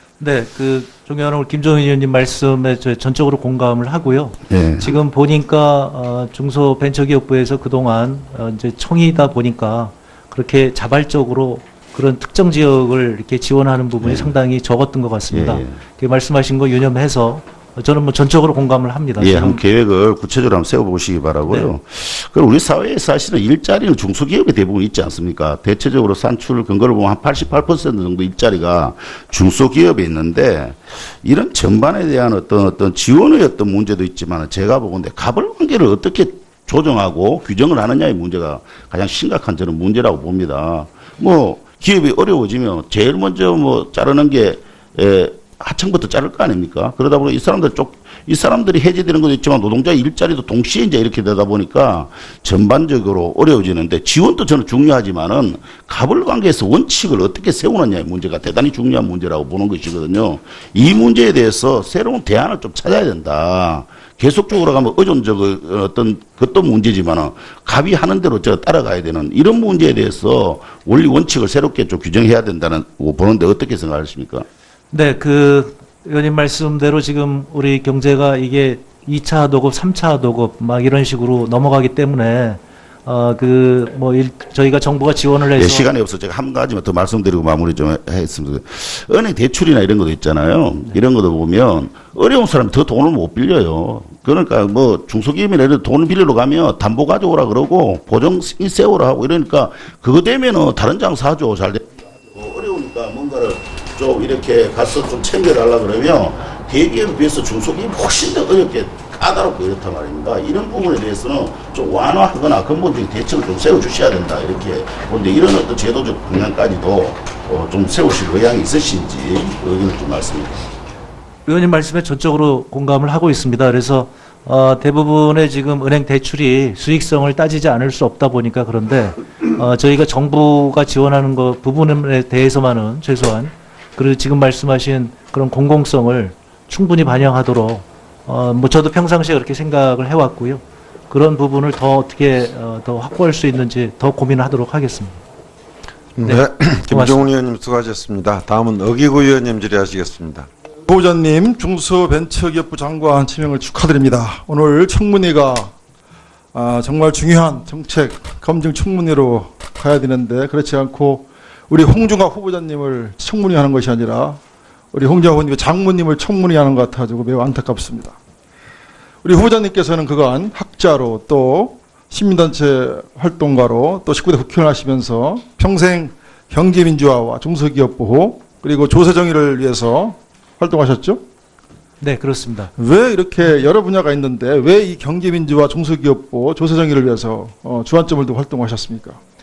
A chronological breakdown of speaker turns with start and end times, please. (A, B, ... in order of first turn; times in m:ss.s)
0:00.2-0:19.6 A
0:04.5-0:04.9 B
0:14.0-0:14.4 B
0:15.3-0:15.8 B
0:19.2-1:14.5 B
1:14.9-1:25.9 A
1:25.6-2:00.6 B
2:01.5-2:25.2 A
2:26.2-2:30.5 C
2:26.2-2:27.2 A
2:30.9-2:35.7 D
2:36.5-2:44.4 D
2:44.9-2:48.2 D
2:49.2-3:01.2 D
3:02.0-3:02.7 A
3:02.8-3:09.2 D